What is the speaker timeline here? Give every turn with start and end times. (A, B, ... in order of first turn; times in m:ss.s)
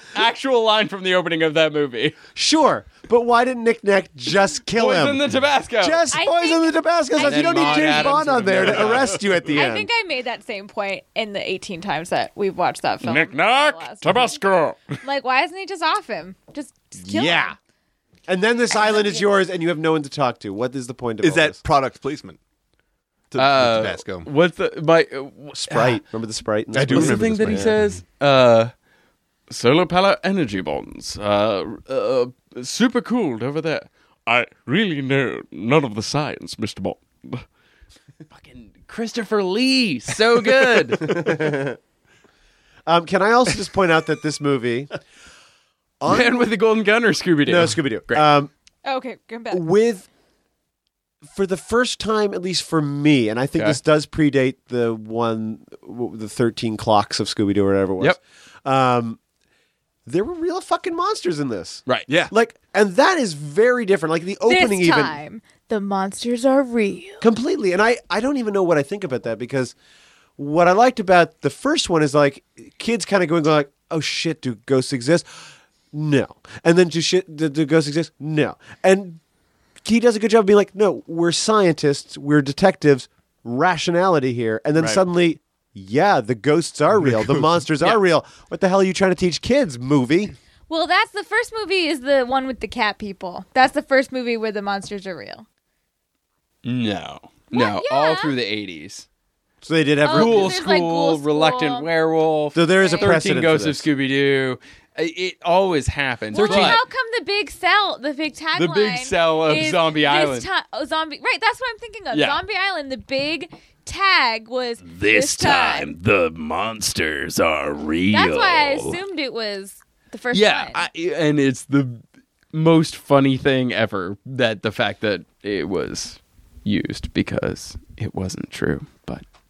0:00.1-0:02.2 A
0:02.4-0:09.9 B
0:04.7-0:06.1 A
0:06.1-0:08.2 C
0:07.2-0:09.2 A
0:08.6-0:09.2 D
0:09.5-0:14.4 C
0:13.0-0:15.0 A
0:15.0-0:17.6 C
0:17.0-0:17.6 B
0:18.3-0:21.6 B
0:18.7-0:19.3 C
0:21.2-0:22.4 D
0:23.3-0:24.3 D
0:23.4-0:26.0 A
0:25.6-0:27.9 B
0:26.7-0:27.8 D
0:26.8-0:28.7 A
0:29.5-0:37.4 A
0:38.3-0:41.3 A
0:41.0-0:41.8 B
0:42.9-0:44.9 B
0:46.0-0:46.5 B
0:46.1-0:48.3 A
0:47.5-0:48.5 B
0:48.8-0:49.6 C
0:49.5-0:50.1 B
0:51.3-0:59.2 B
1:00.1-1:05.2 B
1:04.5-1:07.2 C
1:07.2-1:09.7 B
1:10.4-1:19.2 B
1:19.8-1:30.3 B
1:27.1-1:27.4 D
1:30.7-1:35.4 C
1:36.6-1:39.1 A
1:37.5-1:38.3 C
1:39.6-1:40.6 B
1:40.0-1:41.9 C
1:40.1-1:46.8 A
1:42.6-1:43.9 B
1:42.8-1:43.1 C
1:46.3-1:55.9 C
1:46.4-1:46.8 B
1:48.6-1:50.5 A
1:52.1-1:52.4 A
1:54.9-1:59.0 A
1:58.1-2:00.8 C
2:00.3-2:02.0 A
2:02.5-2:09.2 A